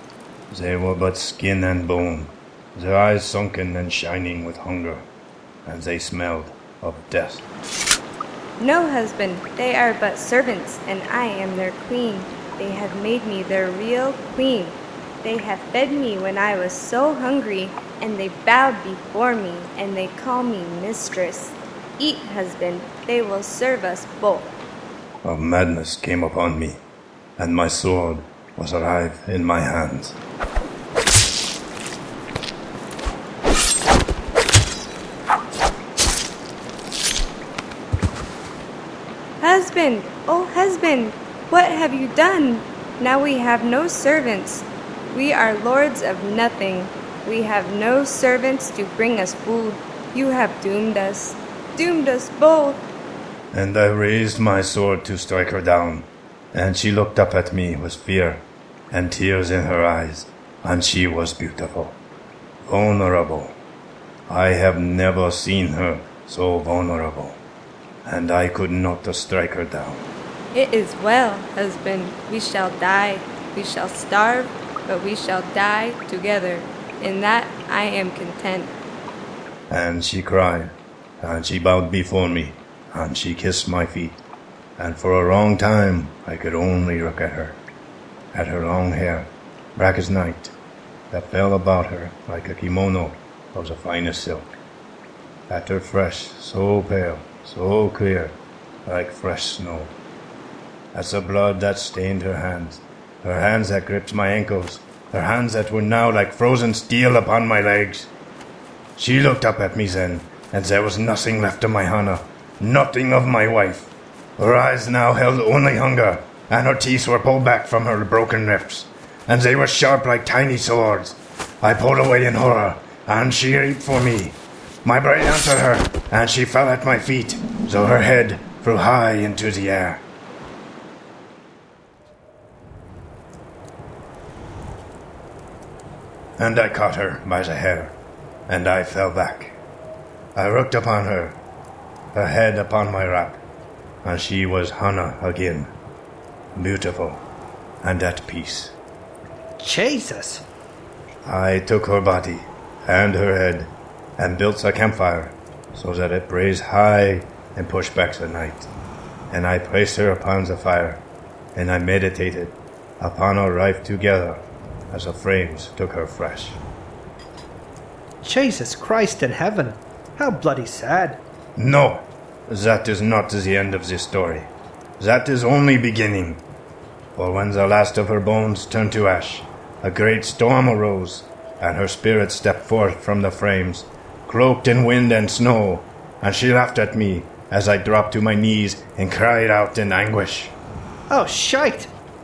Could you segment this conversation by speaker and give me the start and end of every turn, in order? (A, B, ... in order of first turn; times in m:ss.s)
0:00.5-0:05.1 A
0:05.6-0:07.4 A
0:08.6-0:24.5 B
0:25.2-0:26.8 A
0:27.4-0:30.2 A
0:39.4-0:52.8 B
0:53.5-1:02.0 A
1:02.6-1:03.5 A
1:04.3-1:07.4 A
1:08.0-1:10.0 A
1:10.5-1:18.7 B
1:19.7-1:24.2 A
1:24.8-1:27.6 A
1:28.3-1:30.5 A
1:31.1-1:34.6 A
1:35.5-1:39.9 A
1:40.9-1:48.1 A
1:49.0-2:10.0 A
2:16.4-2:17.9 A
2:18.5-2:19.5 A
2:20.3-2:21.4 A
2:22.1-2:23.4 A
2:24.0-2:25.7 A
2:26.5-2:27.2 A
2:27.8-2:28.7 A
2:29.6-2:30.4 C
2:31.2-2:38.7 A
2:39.3-2:41.0 A
2:41.5-2:46.6 A
2:48.2-2:51.2 C
2:51.6-2:56.4 A
2:57.2-3:10.5 A
3:11.1-3:11.9 C